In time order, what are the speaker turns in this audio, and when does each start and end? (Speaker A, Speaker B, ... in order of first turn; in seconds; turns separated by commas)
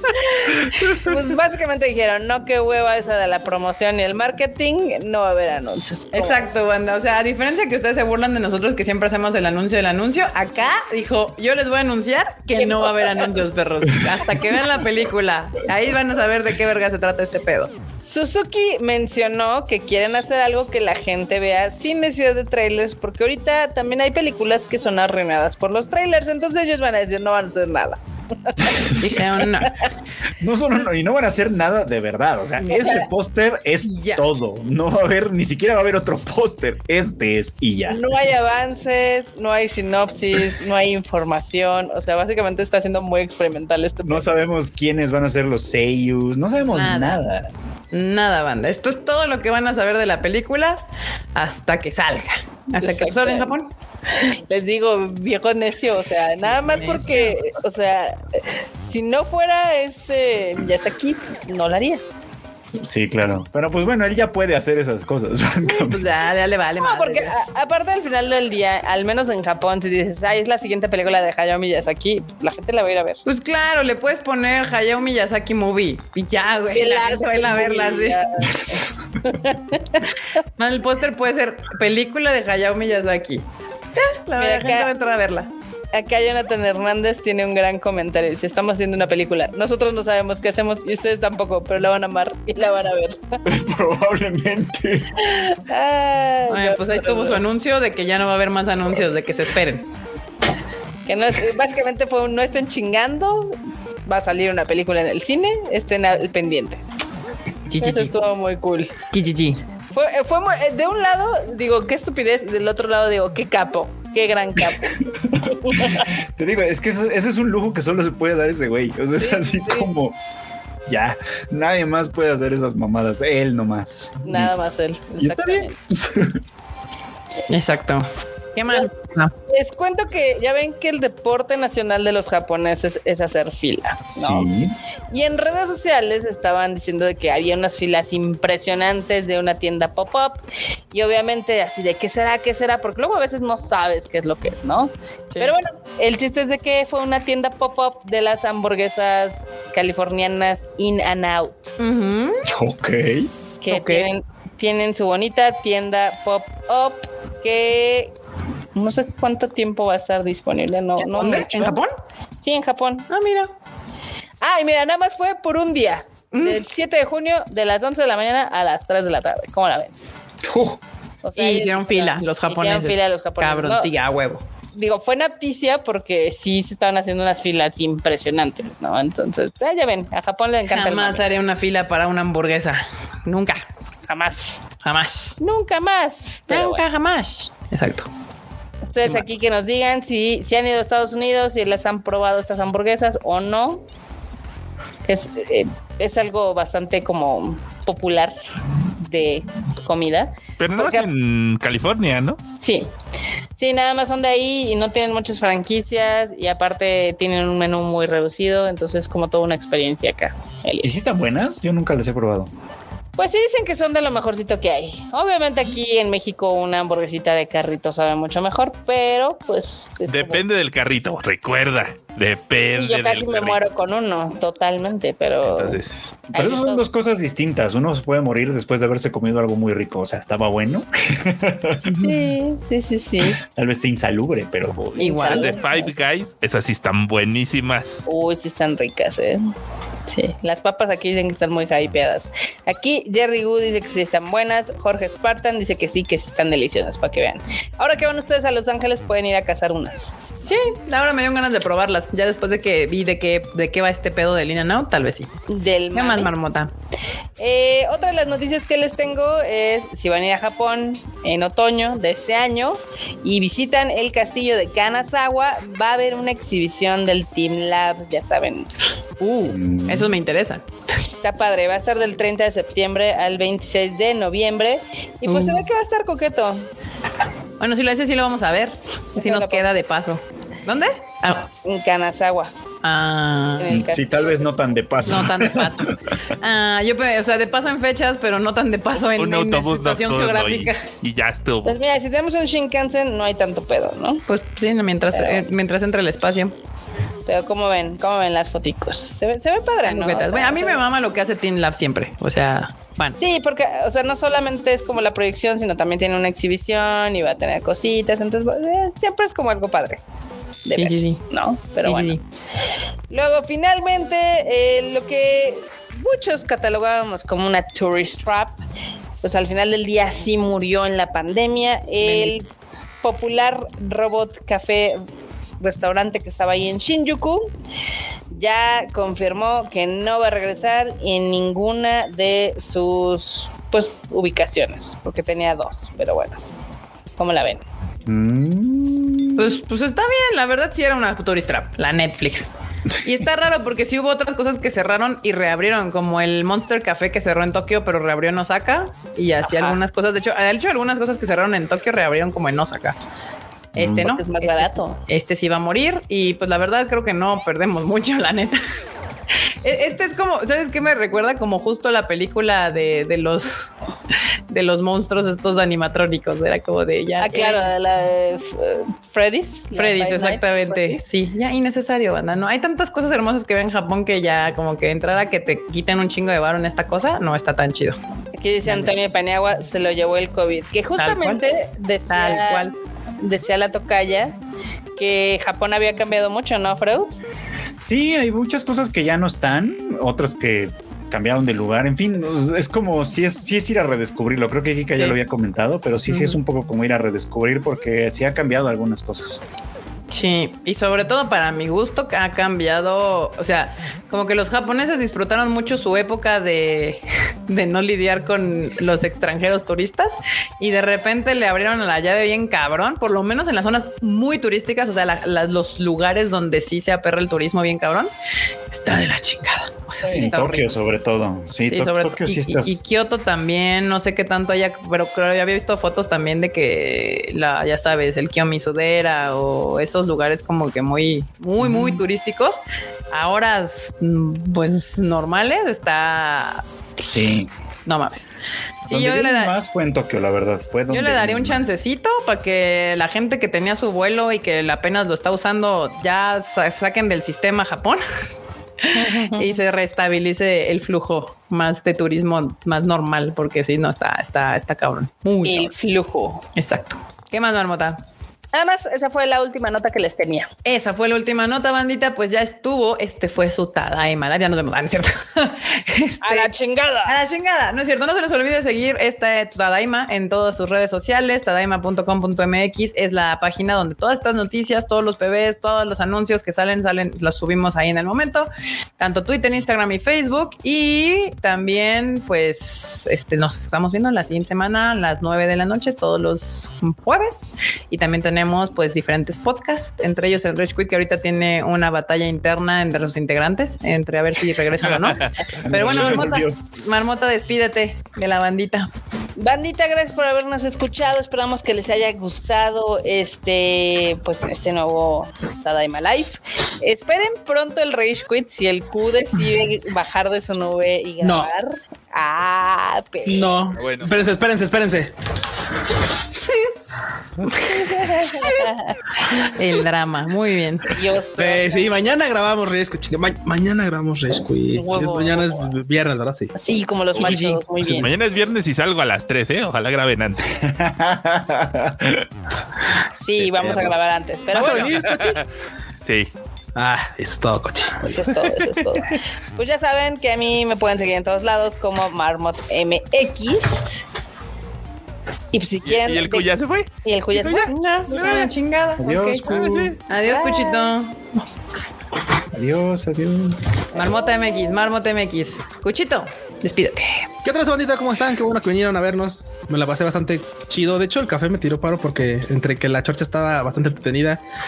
Speaker A: 0.2-6.4, Speaker B: 6.1-17.7, Speaker A: 12.6-13.3, Speaker A: 18.0-29.0, Speaker C: 28.7-28.9, Speaker B: 29.0-29.8, Speaker C: 30.4-38.1, Speaker B: 32.6-33.1, Speaker A: 32.7-33.0, Speaker B: 33.8-34.2, Speaker A: 37.9-44.3, Speaker C: 44.0-47.5, Speaker B: 46.7-47.2, Speaker B: 47.9-50.8, Speaker B: 51.4-53.7, Speaker A: 52.8-53.5, Speaker A: 54.1-62.0, Speaker B: 56.5-57.4, Speaker C: 62.8-66.0, Speaker B: 65.7-67.4, Speaker A: 66.8-73.2, Speaker B: 73.2-78.2, Speaker A: 76.7-80.0, Speaker B: 80.6-83.4, Speaker B: 84.0-85.5, Speaker A: 84.4-84.9, Speaker A: 85.9-93.4, Speaker C: 93.5-95.1, Speaker A: 95.2-97.4, Speaker B: 96.5-99.8, Speaker A: 101.1-106.8, Speaker B: 107.7-108.2, Speaker A: 107.8-109.0, Speaker B: 109.1-109.6, Speaker A: 109.9-115.0, Speaker C: 115.3-120.2, Speaker A: 115.6-116.1, Speaker A: 119.2-119.9, Speaker C: 120.9-124.6, Speaker A: 124.2-125.8, Speaker C: 125.2-126.4, Speaker B: 127.5-129.3, Speaker A: 129.5-134.5, Speaker C: 134.2-134.8, Speaker A: 135.1-151.7, Speaker B: 151.8-152.5, Speaker C: 152.5-153.3, Speaker A: 153.6-158.1, Speaker B: 153.7-154.1, Speaker A: 158.8-161.8, Speaker B: 161.0-161.9, Speaker A: 162.4-163.1, Speaker B: 163.1-163.5, Speaker A: 164.4-169.9, Speaker B: 166.3-166.6, Speaker C: 170.4-170.8, Speaker A: 171.2-173.9, Speaker B: 171.4-174.4, Speaker A: 174.8-181.2, Speaker B: 180.7-183.7, Speaker A: 184.1-184.6, Speaker B: 184.8-185.4, Speaker A: 185.4-186.8, Speaker B: 186.5-188.1, Speaker A: 188.8-193.8, Speaker A: 195.0-198.4, Speaker A: 199.0-201.1, Speaker D: 200.6-202.4, Speaker A: 202.6-202.9, Speaker A: 203.6-210.9, Speaker C: 210.8-212.5, Speaker A: 213.2-220.4, Speaker D: 220.1-223.6, Speaker A: 222.8-225.8, Speaker D: 225.4-225.9, Speaker C: 226.3-232.0, Speaker A: 226.3-226.9, Speaker A: 231.9-233.4, Speaker C: 233.4-234.9, Speaker D: 234.8-238.1, Speaker B: 235.0-235.6, Speaker A: 235.0-235.9, Speaker A: 238.1-239.4, Speaker A: 240.1-250.1, Speaker B: 250.5-255.3, Speaker A: 255.5-256.3, Speaker B: 255.9-256.7, Speaker A: 257.4-268.7, Speaker E: 269.2-269.6, Speaker C: 269.4-270.1, Speaker B: 269.9-270.6, Speaker A: 271.0-276.7, Speaker B: 275.2-275.6, Speaker B: 277.6-281.5, Speaker A: 279.2-279.7, Speaker A: 281.6-282.5, Speaker B: 282.8-283.8, Speaker A: 283.6-284.4, Speaker C: 283.7-285.9, Speaker B: 285.1-290.9, Speaker D: 289.0-291.8, Speaker A: 291.6-294.2, Speaker B: 294.3-296.5, Speaker A: 295.1-295.4, Speaker A: 297.3-300.8, Speaker B: 299.8-303.2, Speaker A: 303.2-310.0, Speaker A: 310.6-312.2, Speaker B: 310.8-311.2, Speaker B: 311.8-312.2, Speaker A: 313.1-318.6, Speaker A: 319.2-322.5, Speaker B: 322.0-322.4, Speaker A: 323.0-325.0, Speaker A: 325.6-327.5, Speaker A: 328.3-336.4, Speaker A: 337.2-337.6, Speaker C: 338.1-339.5, Speaker B: 339.4-342.5, Speaker B: 343.0-353.0, Speaker A: 349.4-349.8, Speaker B: 353.7-358.6, Speaker C: 353.8-354.1, Speaker A: 354.0-355.0, Speaker B: 359.6-363.7, Speaker B: 364.5-367.7, Speaker A: 367.2-371.0, Speaker B: 369.8-378.0, Speaker A: 378.4-384.4, Speaker B: 378.6-378.9, Speaker B: 381.0-381.4, Speaker B: 382.1-382.7, Speaker A: 385.0-387.1, Speaker C: 387.8-399.4, Speaker B: 396.1-396.4, Speaker B: 400.1-418.1, Speaker B: 418.7-420.7, Speaker C: 420.0-422.8, Speaker A: 420.1-420.5, Speaker B: 421.7-436.6, Speaker C: 431.6-432.0, Speaker C: 437.0-437.5, Speaker B: 437.9-438.3, Speaker B: 438.9-439.5, Speaker C: 438.9-441.7, Speaker B: 440.9-448.0, Speaker B: 448.8-455.7, Speaker A: 448.9-449.6, Speaker A: 455.4-456.4, Speaker B: 456.6-458.0, Speaker A: 458.5-460.5, Speaker B: 460.6-466.5, Speaker A: 466.2-467.2, Speaker B: 467.1-498.9, Speaker D: 495.0-495.3, Speaker C: 495.6-496.6, Speaker A: 499.4-513.5, Speaker E: 511.2-511.5, Speaker E: 513.2-515.1, Speaker D: 513.8-514.1, Speaker B: 517.5-518.4, Speaker A: 517.6-519.5, Speaker B: 519.4-520.9, Speaker A: 520.9-522.0, Speaker E: 521.4-526.5, Speaker A: 524.8-525.6, Speaker A: 526.5-528.1, Speaker E: 527.1-528.1, Speaker D: 527.2-530.5, Speaker C: 530.6-532.3, Speaker A: 533.2-535.0, Speaker E: 533.5-533.9, Speaker E: 534.5-535.4, Speaker D: 534.9-535.5, Speaker D: 536.0-536.3, Speaker E: 536.8-538.3, Speaker A: 538.0-544.0, Speaker A: 545.5-546.5, Speaker D: 545.9-548.5, Speaker A: 547.0-547.7, Speaker B: 547.7-551.4, Speaker C: 549.0-549.9, Speaker D: 549.5-550.0, Speaker A: 550.2-550.9, Speaker C: 552.5-553.8, Speaker B: 553.9-557.3, Speaker E: 557.4-564.4